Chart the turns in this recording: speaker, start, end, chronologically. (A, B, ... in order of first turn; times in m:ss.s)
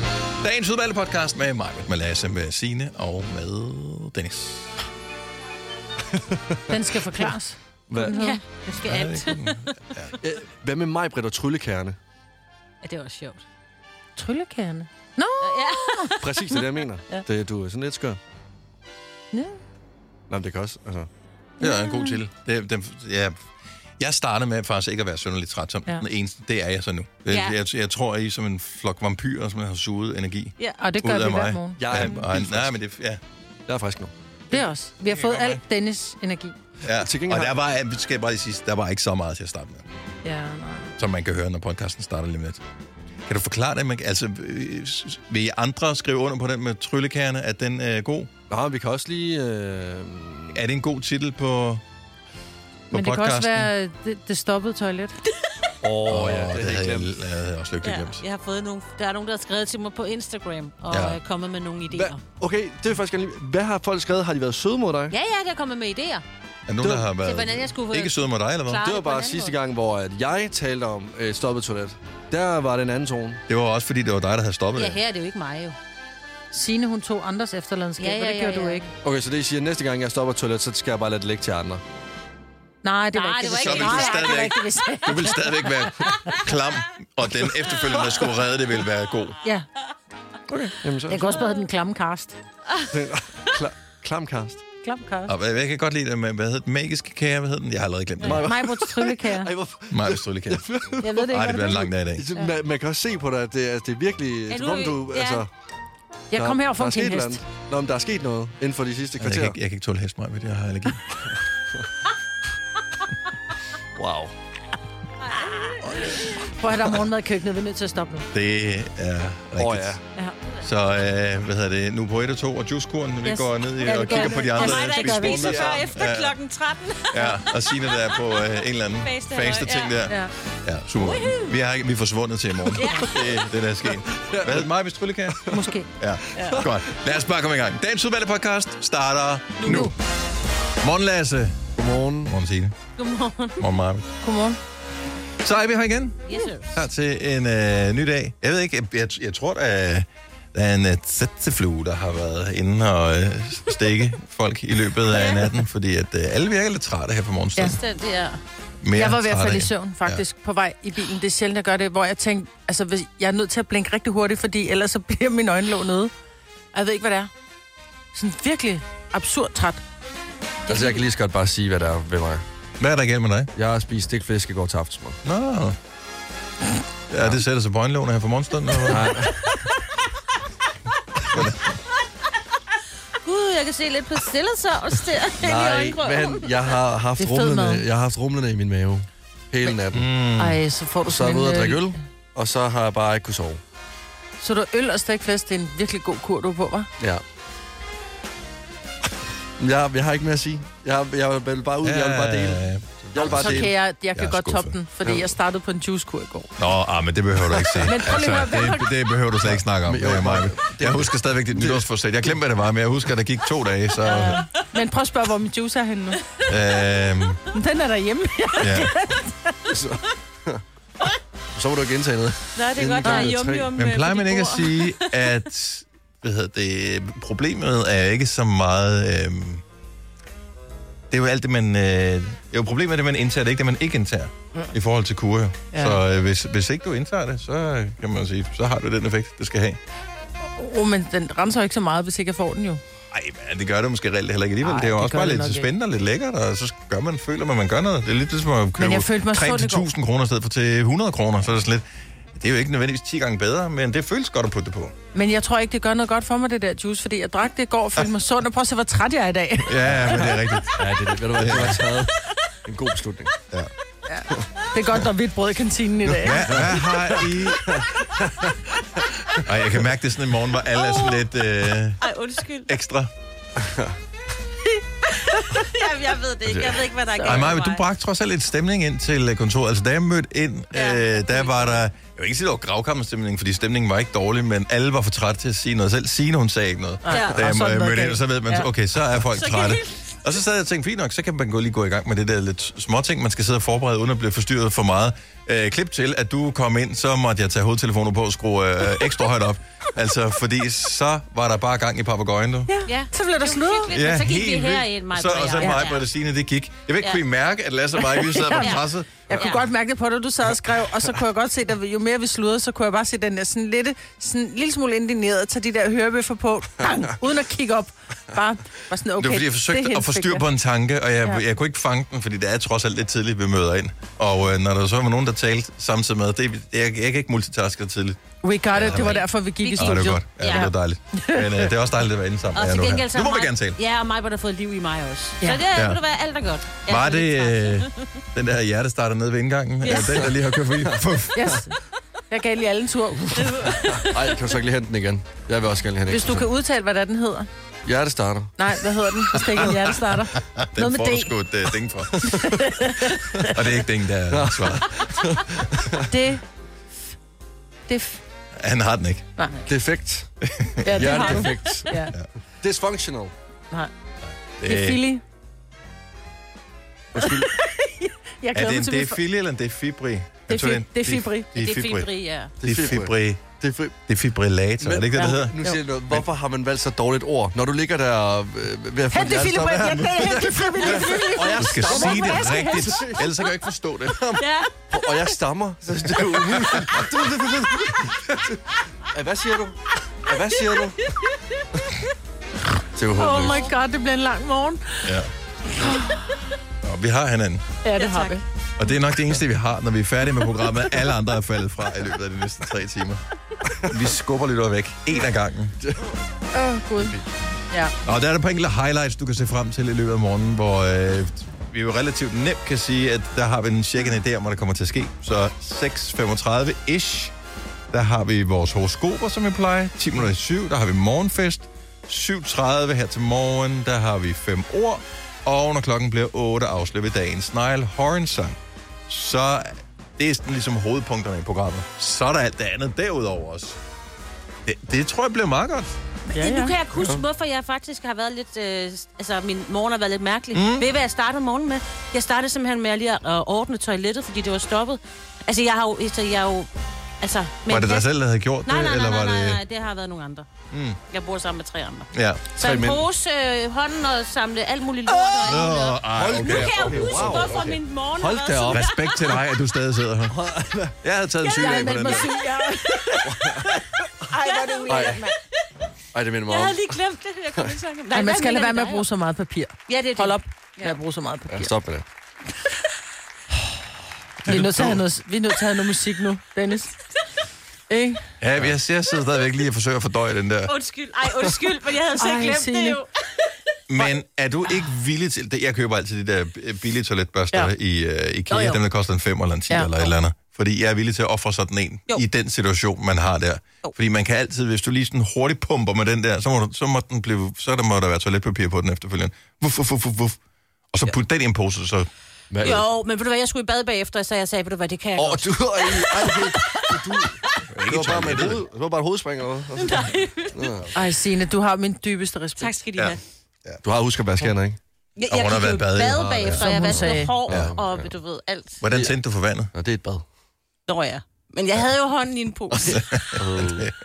0:00.4-0:04.7 A
0:06.1-0:06.8 B
0:06.7-0:08.4 C
0:07.9-0:08.2 B
0:08.1-0:09.9 D
0:08.8-0:10.1 A
0:10.2-0:12.0 B
0:12.8-0:13.4 D
0:14.2-0:16.2 C
0:15.4-0:16.6 D
0:16.2-0:18.2 B
0:19.3-0:19.6 C
0:20.3-0:21.1 B
0:21.6-0:23.4 A
0:21.6-0:22.2 C
0:24.0-0:33.2 A
0:27.3-0:27.6 D
0:30.8-0:32.2 C
0:31.8-0:32.8 B
0:33.7-0:34.1 B
0:34.5-0:36.6 C
0:34.5-0:35.6 A
0:36.8-0:39.8 A
0:36.8-0:37.6 B
0:40.2-0:40.9 C
0:41.0-0:42.6 A
0:43.3-0:48.3 A
0:48.5-0:50.6 B
0:50.5-0:51.8 A
0:52.9-0:53.7 A
0:52.9-0:55.2 C
0:55.8-0:57.1 B
0:56.0-0:58.2 A
0:57.8-1:02.2 D
1:00.9-1:01.2 A
1:01.9-1:05.1 B
1:05.1-1:06.2 D
1:06.7-1:08.9 A
1:06.8-1:07.1 B
1:07.2-1:08.2 D
1:08.7-1:09.6 D
1:08.8-1:13.4 B
1:13.5-1:15.0 A
1:14.8-1:15.8 D
1:16.5-1:18.9 C
1:18.0-1:18.9 D
1:19.0-1:21.8 B
1:22.8-1:26.1 C
1:23.1-1:24.5 D
1:23.5-1:29.4 A
1:30.7-1:31.3 B
1:31.1-1:32.4 C
1:32.9-1:34.6 B
1:34.8-1:35.3 C
1:35.3-1:38.5 A
1:38.2-1:41.4 B
1:38.4-1:39.5 C
1:39.9-1:40.7 A
1:41.0-1:42.5 C
1:41.2-1:42.3 A
1:42.2-1:45.5 B
1:44.5-1:45.5 D
1:46.3-1:47.4 C
1:46.3-1:49.6 B
1:49.2-1:51.1 A
1:54.0-1:54.3 B
1:55.3-1:55.8 D
1:56.0-1:58.3 C
1:58.3-2:00.0 A
1:59.6-2:00.0 B
2:00.6-2:06.4 A
2:03.3-2:07.6 D
2:03.8-2:05.5 C
2:05.4-2:05.8 B
2:07.1-2:19.9 A
2:09.0-2:10.0 D
2:11.0-2:11.5 D
2:12.7-2:13.4 D
2:14.1-2:14.7 B
2:15.5-2:15.9 C
2:16.4-2:16.6 D
2:16.4-2:16.7 B
2:19.6-2:19.9 D
2:20.8-2:21.7 A
2:21.8-2:22.3 B
2:22.2-2:22.8 A
2:23.0-2:23.6 D
2:23.6-2:24.1 A
2:24.2-2:24.6 C
2:25.4-2:37.8 A
2:26.3-2:26.8 D
2:35.1-2:35.5 D
2:37.7-2:38.4 D
2:38.8-2:40.2 A
2:38.9-2:46.1 C
2:46.7-2:47.3 C
2:48.1-2:49.8 C
2:50.7-2:52.4 B
2:52.8-2:53.5 A
2:53.6-2:55.2 B
2:55.2-2:55.8 A
2:57.1-2:59.1 A
2:58.9-2:59.5 B
3:01.3-3:01.8 A
3:03.2-3:06.8 D
3:05.4-3:10.1 B
3:07.2-3:07.8 C
3:09.9-3:10.6 A
3:10.4-3:11.9 C
3:11.0-3:13.6 B
3:14.4-3:16.9 C
3:19.6-3:23.7 B
3:21.8-3:24.8 A
3:23.2-3:26.5 C
3:26.6-3:34.4 A
3:27.6-3:27.9 B
3:27.8-3:28.9 C
3:29.5-3:32.4 B
3:34.1-3:36.2 C
3:36.5-3:37.4 A
3:37.5-3:39.6 C
3:38.6-3:38.9 A
3:39.7-3:40.6 B
3:41.5-3:43.7 B
3:42.6-3:45.0 D
3:43.0-3:43.3 C
3:43.8-3:49.6 A
3:51.1-3:59.8 A
3:55.7-3:56.0 C
4:00.6-4:02.8 C
4:03.1-4:15.0 A
4:04.6-4:05.7 C
4:08.8-4:09.9 C
4:15.2-4:20.0 C
4:19.6-4:21.8 A
4:19.9-4:20.2 B
4:20.8-4:23.4 B
4:24.1-4:26.7 C
4:26.1-4:28.6 B
4:26.2-4:27.8 A
4:29.4-4:32.1 A
4:30.7-4:31.4 D
4:32.0-4:32.8 D
4:32.7-4:33.1 A
4:33.6-4:34.0 B
4:35.3-4:37.8 D
4:36.5-4:36.9 B
4:37.2-5:02.7 A
4:40.7-4:41.8 D
4:47.0-4:48.7 C
4:47.1-4:47.4 D
4:49.3-4:50.0 D
5:02.7-5:04.0 C
5:02.9-5:06.1 D
5:03.9-5:09.3 A
5:08.1-5:08.8 C
5:08.6-5:09.6 D
5:09.3-5:20.5 C
5:19.2-5:33.8 A
5:28.4-5:31.7 C
5:28.9-5:30.7 D
5:32.5-5:37.9 D
5:35.7-5:36.0 A
5:36.9-5:41.6 A
5:39.8-5:40.3 D
5:41.3-5:41.8 C
5:42.3-5:43.8 C
5:43.4-5:44.3 D
5:44.0-5:46.5 B
5:46.1-5:47.5 C
5:47.8-5:48.6 B
5:48.6-5:51.3 C
5:50.4-5:52.4 A
5:52.2-5:52.5 B
5:52.3-5:53.6 C
5:53.4-5:55.0 A
5:54.3-5:56.1 B
5:56.1-5:56.4 C
5:57.9-5:58.2 C
5:58.6-5:59.3 A
5:59.4-5:59.7 C
5:59.7-6:00.3 B
6:00.4-6:01.4 A
6:00.8-6:02.0 B
6:00.8-6:02.1 C
6:02.6-6:03.3 B
6:04.3-6:05.0 A
6:04.6-6:05.2 C
6:07.1-6:07.5 B
6:07.2-6:09.2 C
6:08.5-6:12.1 A
6:10.5-6:11.5 C
6:11.6-6:12.5 D
6:12.6-6:13.5 A
6:12.6-6:14.0 B
6:14.1-6:15.6 A
6:14.8-6:23.3 B
6:19.1-6:23.1 C
6:19.6-6:20.4 A
6:21.0-6:24.4 A
6:24.4-6:24.7 D
6:24.9-6:31.1 B
6:26.3-6:27.0 A
6:33.0-6:33.7 B
6:33.1-6:35.1 C
6:35.0-6:35.3 A
6:35.8-6:36.3 C
6:36.8-6:37.6 A
6:37.8-6:38.4 C
6:38.0-6:38.4 D
6:38.8-6:43.2 A
6:43.8-6:45.8 A
6:46.5-6:47.2 C
6:48.0-6:57.3 A
6:57.9-7:13.8 A
7:14.6-7:15.9 A
7:16.3-7:16.8 C
7:16.4-7:26.7 D
7:20.5-7:20.9 A
7:27.2-7:28.1 D
7:27.7-7:29.6 A
7:28.6-7:30.5 D
7:30.7-7:31.0 A
7:31.1-7:39.4 D
7:32.1-7:33.0 A
7:32.6-7:33.0 B
7:35.3-7:37.8 A
7:36.1-7:38.8 B
7:38.7-7:40.4 A
7:40.3-7:41.0 B
7:41.0-7:42.3 A
7:41.5-7:43.3 C
7:43.2-7:43.7 B
7:44.3-7:45.3 C
7:44.4-7:45.2 D
7:44.9-7:45.2 B
7:46.1-7:47.0 B
7:46.5-7:49.1 D
7:48.1-7:51.7 C
7:49.9-7:51.0 D
7:51.5-7:52.0 B
7:54.5-7:56.9 C
7:57.9-7:58.2 C
7:58.4-8:00.7 A
8:00.7-8:03.1 D
8:02.2-8:03.0 C
8:03.9-8:20.4 A
8:08.5-8:08.8 D
8:20.9-8:22.1 A
8:22.5-8:22.8 B
8:22.6-8:26.9 D
8:25.2-8:30.9 B
8:27.7-8:28.6 A
8:29.8-8:30.8 D
8:30.9-8:32.8 C
8:32.6-8:33.2 D
8:33.0-8:33.8 A
8:33.8-8:34.8 B
8:35.2-8:38.8 D
8:35.2-8:36.7 A
8:36.5-8:37.3 C
8:37.0-8:38.1 B
8:37.5-8:37.8 A
8:38.8-8:39.7 A
8:39.7-8:40.2 B
8:40.9-8:43.0 D
8:42.8-8:43.9 B
8:42.9-8:43.9 A